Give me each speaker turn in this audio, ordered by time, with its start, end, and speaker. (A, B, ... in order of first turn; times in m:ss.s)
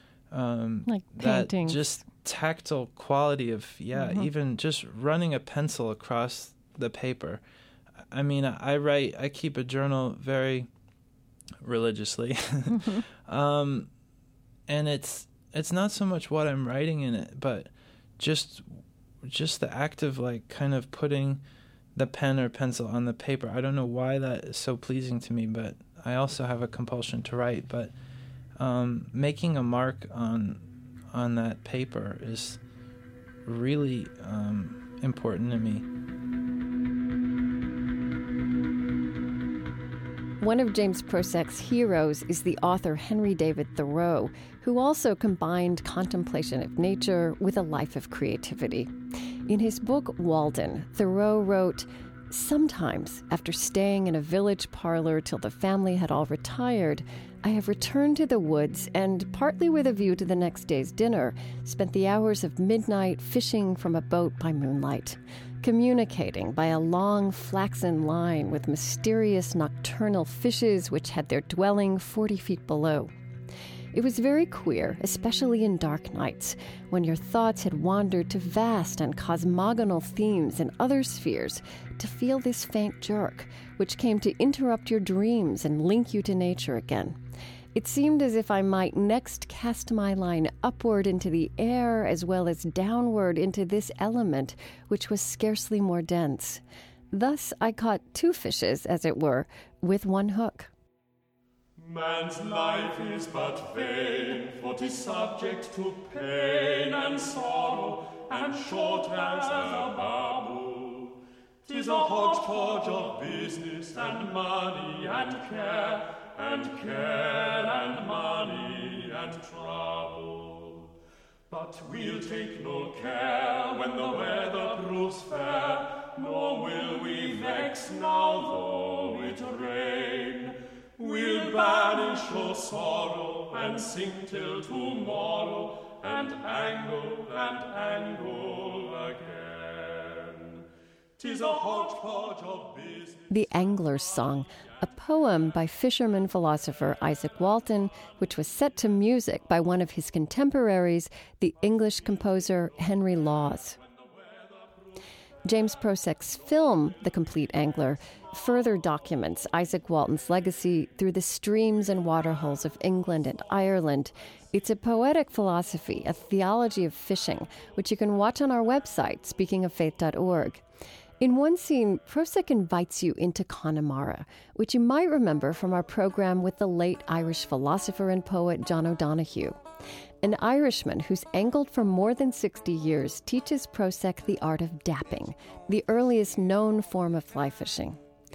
0:00.3-0:07.4 A
0:00.9-0:02.0 B
0:04.0-0:04.3 B
0:08.1-0:10.7 A
0:11.6-0:13.9 A
0:14.7-0:21.4 A
0:22.0-0:27.9 A
0:28.6-0:32.6 A
0:33.4-0:35.9 A
0:40.4-0:48.9 B
0:49.5-1:13.1 B
1:13.9-1:27.2 B
1:27.8-1:36.6 B
1:37.1-1:40.7 B
1:41.8-2:00.8 C
2:01.5-2:20.6 C
2:21.2-2:23.3 C
2:23.3-2:33.8 B
2:33.8-2:34.8 C
2:35.4-2:50.6 B
2:51.2-2:59.6 B
3:00.2-3:08.0 B